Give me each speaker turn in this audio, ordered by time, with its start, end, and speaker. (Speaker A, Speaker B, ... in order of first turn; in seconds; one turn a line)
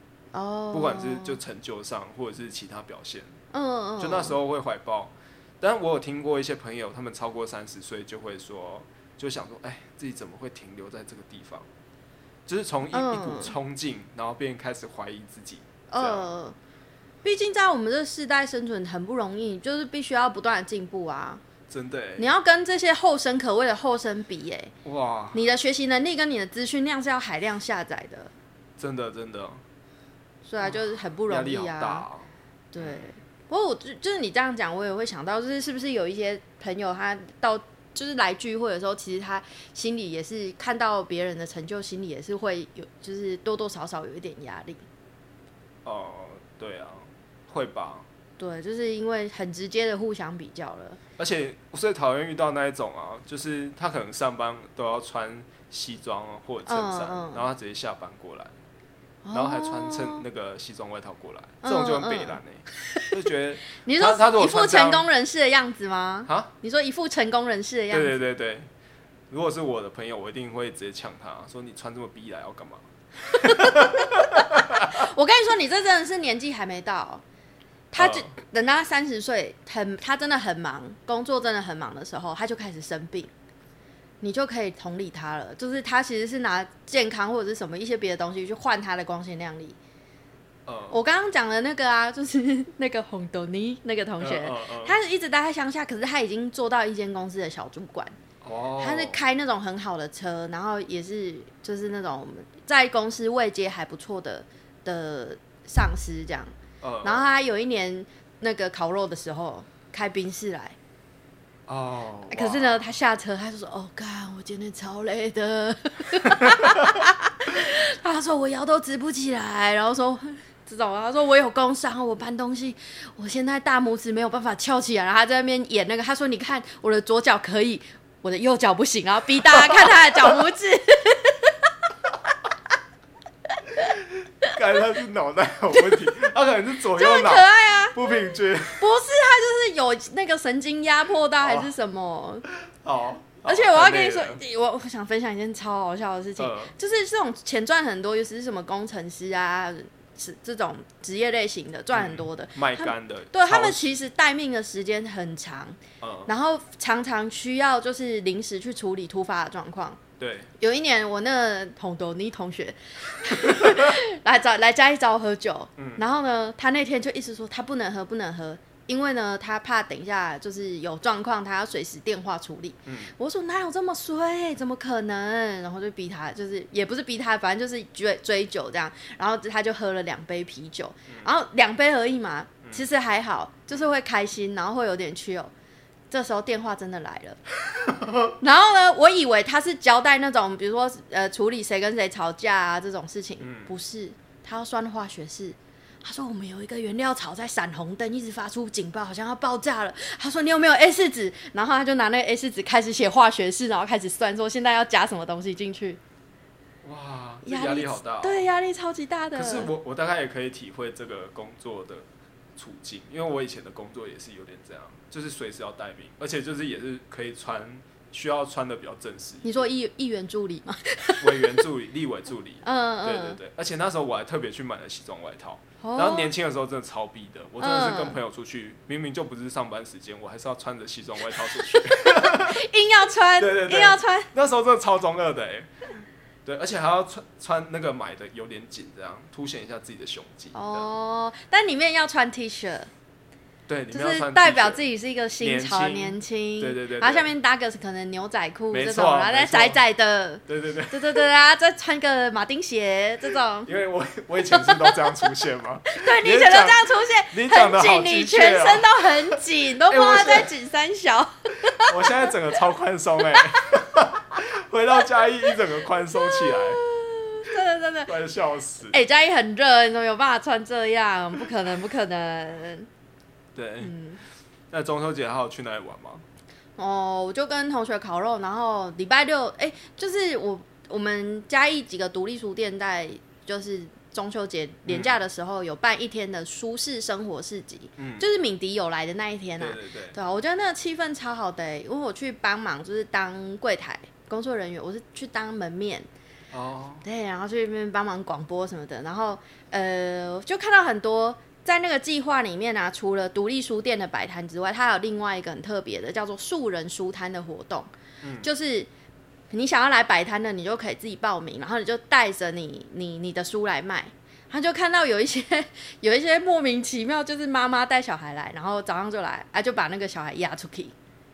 Speaker A: 0.3-1.4
Speaker B: 0.7-3.3
Speaker A: 3.5-4.4
Speaker B: 4.0-11.7
Speaker B: 12.4-16.2
Speaker A: 12.9-13.5
Speaker A: 15.9-16.5
Speaker A: 17.2-21.4
Speaker B: 21.7-22.2
Speaker A: 22.2-24.7
Speaker B: 24.8-25.5
Speaker A: 25.3-28.3
Speaker B: 28.8-29.6
Speaker A: 30.4-32.1
Speaker B: 30.6-32.3
Speaker A: 32.7-44.8
Speaker B: 45.8-48.0
Speaker A: 48.4-51.0
Speaker B: 51.2-58.5
Speaker A: 56.6-57.5
Speaker A: 59.2-60.2
Speaker B: 59.3-65.0
Speaker A: 61.6-62.4
Speaker A: 63.8-68.2
Speaker B: 67.9-68.7
Speaker B: 69.3-74.9
Speaker A: 73.3-77.2
Speaker A: 77.9-83.3
Speaker B: 78.0-78.3
Speaker A: 84.2-89.8
Speaker B: 90.7-91.0
Speaker A: 90.9-98.1
Speaker B: 94.2-95.0
Speaker B: 98.4-99.2
Speaker A: 98.8-106.5
Speaker B: 106.8-107.2
Speaker A: 107.0-110.8
Speaker B: 111.7-112.8
Speaker A: 112.3-131.7
Speaker B: 116.4-116.8
Speaker B: 129.5-130.0
Speaker B: 133.8-138.9
Speaker A: 135.7-136.1
Speaker A: 136.9-138.0
Speaker A: 138.8-142.4
Speaker B: 141.4-141.7
Speaker B: 142.8-144.4
Speaker A: 143.4-160.0
Speaker B: 146.4-146.7
Speaker B: 151.9-153.9
Speaker B: 156.0-156.3
Speaker B: 160.2-160.5
Speaker A: 160.6-185.5
Speaker B: 163.4-164.0
Speaker B: 165.8-166.0
Speaker B: 172.8-173.1
Speaker A: 186.1-187.4
Speaker B: 187.9-188.3
Speaker A: 188.4-206.0
Speaker B: 193.4-193.7
Speaker B: 206.8-208.4
Speaker A: 207.4-209.7
Speaker B: 209.3-212.1
Speaker B: 212.6-219.7
Speaker A: 219.4-221.6
Speaker B: 221.2-232.6
Speaker A: 222.6-223.4
Speaker A: 225.8-226.3
Speaker A: 227.6-228.2
Speaker A: 231.5-234.3
Speaker B: 233.4-240.9
Speaker A: 240.5-242.9
Speaker B: 243.7-244.8
Speaker A: 243.9-253.7
Speaker B: 245.4-247.3
Speaker B: 248.7-249.8
Speaker B: 250.5-251.3
Speaker B: 253.7-260.5
Speaker A: 254.5-255.3
Speaker A: 255.9-262.3
Speaker B: 261.8-266.8
Speaker A: 266.2-268.1
Speaker B: 268.1-269.0
Speaker A: 268.9-272.9
Speaker B: 273.5-273.9
Speaker A: 273.8-274.2
Speaker B: 274.7-276.2
Speaker A: 276.8-296.1
Speaker B: 284.9-285.2
Speaker B: 288.0-288.3
Speaker B: 289.6-290.1
Speaker B: 296.5-297.0
Speaker A: 297.0-307.9
Speaker B: 308.2-308.5
Speaker A: 308.4-308.9
Speaker A: 309.5-320.9